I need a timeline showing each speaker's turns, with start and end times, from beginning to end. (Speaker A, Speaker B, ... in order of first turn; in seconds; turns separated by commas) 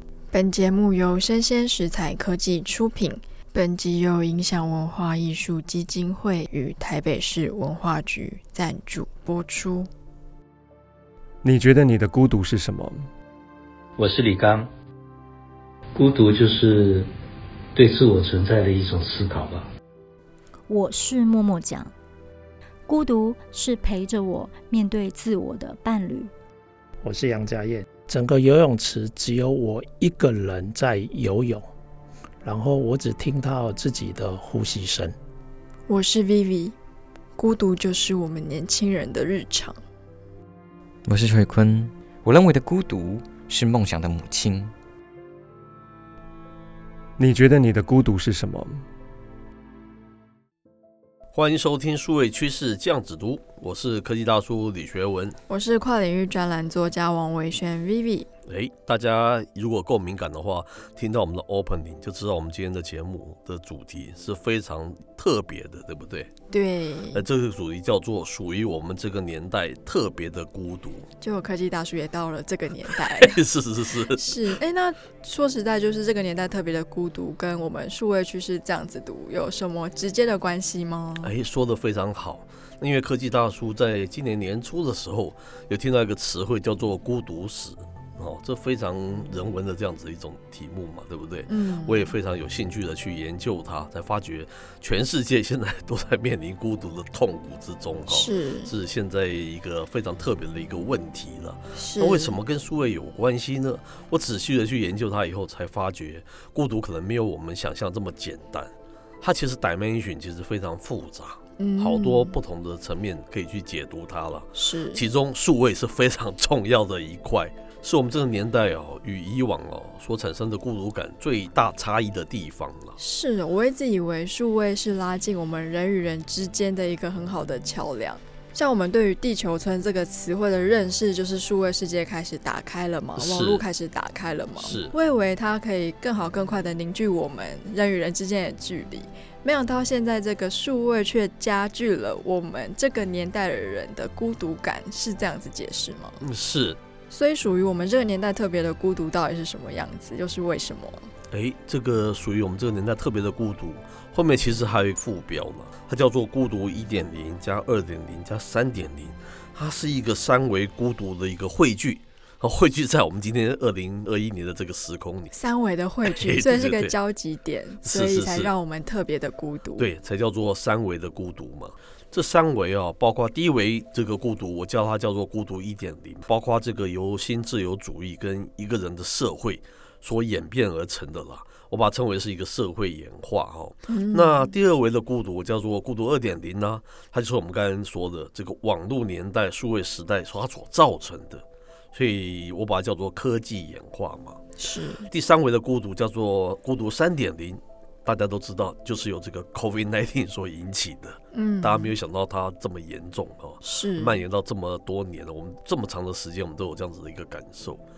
Speaker A: 0.3-9.9, Speaker B: 11.4-13.1, Speaker C: 14.0-14.7, Speaker C: 16.0-17.1, Speaker C: 17.8-19.6, Speaker D: 20.7-21.9, Speaker D: 22.9-26.3, Speaker E: 27.0-31.6, Speaker E: 32.4-35.2, Speaker A: 35.9-36.8, Speaker A: 37.4-39.8, Speaker F: 41.1-44.7, Speaker B: 47.2-48.8, Speaker G: 51.3-55.4, Speaker A: 55.5-58.3, Speaker G: 58.5-66.3, Speaker A: 66.5-67.2, Speaker G: 67.1-71.1, Speaker A: 71.2-73.4, Speaker G: 72.9-74.4, Speaker A: 74.2-81.3, Speaker G: 81.2-123.0, Speaker A: 91.5-92.1, Speaker A: 98.1-98.7, Speaker A: 101.8-102.4, Speaker A: 111.6-112.4, Speaker A: 114.5-115.0, Speaker A: 123.0-146.2, Speaker G: 133.2-133.7, Speaker G: 134.6-134.9, Speaker G: 146.2-146.8, Speaker A: 147.1-151.1, Speaker G: 151.3-165.3, Speaker A: 165.3-169.9, Speaker G: 166.0-166.9, Speaker G: 167.8-168.5, Speaker G: 169.8-207.8, Speaker A: 183.9-184.5, Speaker A: 194.6-195.1, Speaker A: 201.3-201.9, Speaker A: 203.6-204.2